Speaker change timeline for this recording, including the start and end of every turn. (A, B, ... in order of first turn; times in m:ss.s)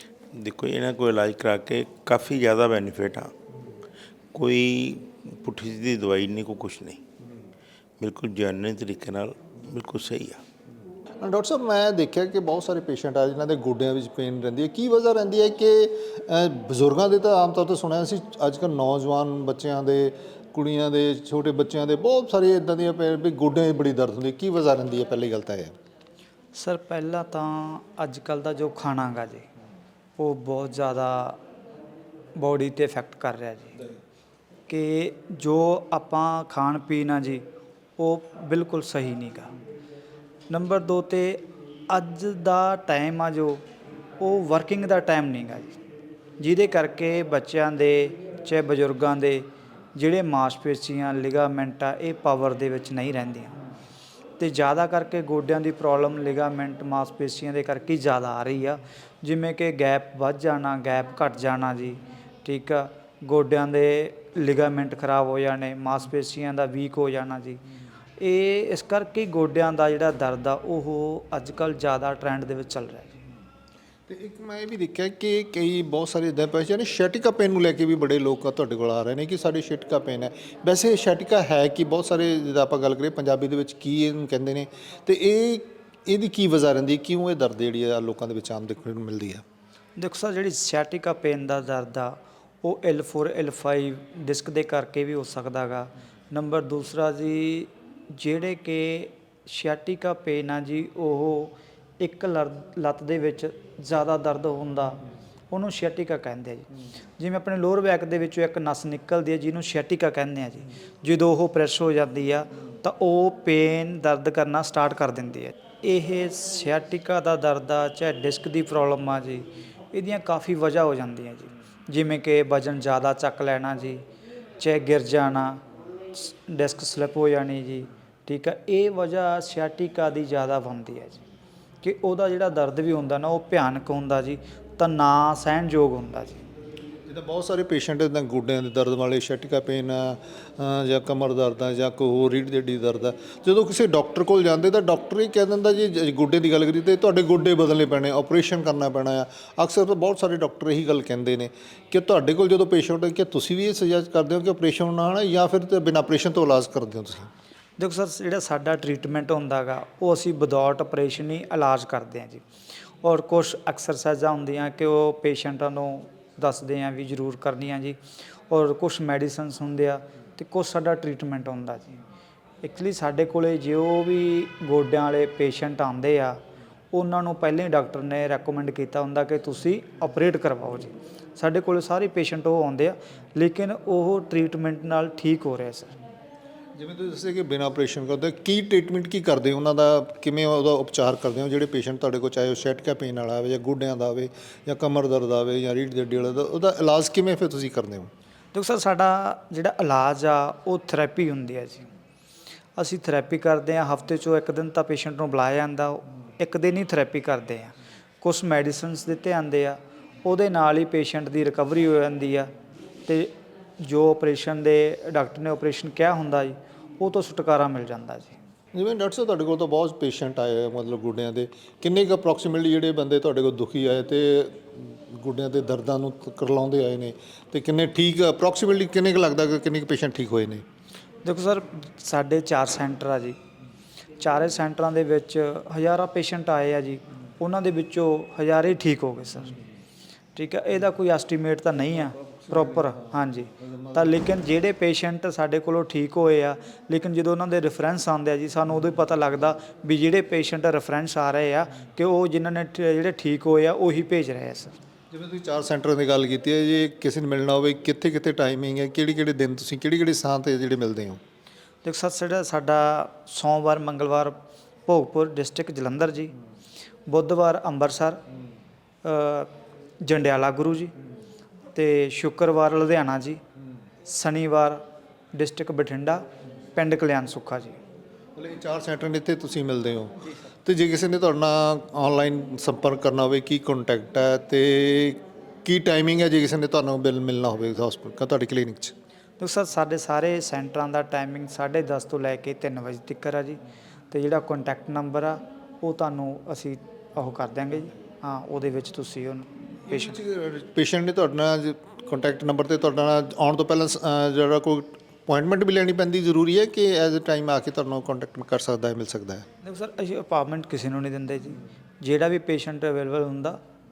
0:00.3-0:03.3 A
0:04.3-0:07.0 A
0:08.0-0:10.4 A
0:11.2-0:25.7 B
0:26.5-0:29.5 C
0:30.2-0:31.4 C
0:32.4-0:33.7 C
0:34.7-0:37.4 C
0:38.0-0:39.5 C
0:40.5-0:43.6 C
0:44.2-0:45.8 C
0:46.4-0:53.6 C
0:54.4-1:07.6 C
1:08.2-1:13.2 C
1:14.1-1:29.4 B
1:30.0-2:04.0 C
2:04.6-2:05.6 C
2:06.1-2:11.2 C
2:11.8-2:16.4 C
2:17.1-2:37.3 B
2:37.8-2:42.4 C
2:43.0-2:48.0 C
2:48.5-2:51.9 C
2:52.6-2:56.4 C
2:56.9-3:05.9 C
3:06.8-3:18.1 B
3:18.5-3:21.8 C
3:22.8-3:32.5 C
3:33.1-3:38.4 C
3:38.7-3:50.6 B
3:51.2-3:53.4 C
3:54.2-3:59.5 C
4:00.3-4:14.7 C
4:02.5-4:02.8 B
4:15.1-4:21.2 B
4:21.8-4:24.3 C
4:24.9-4:26.3 C
4:27.1-4:28.2 C
4:29.0-4:29.5 C
4:30.0-4:30.9 C
4:31.7-4:33.4 C
4:34.0-4:34.8 C
4:35.3-4:36.2 C
4:36.7-4:37.8 C
4:38.4-4:48.9 B
4:49.4-4:53.6 C
4:54.1-5:00.2 C
4:59.9-5:09.4 B
5:09.6-5:13.6 C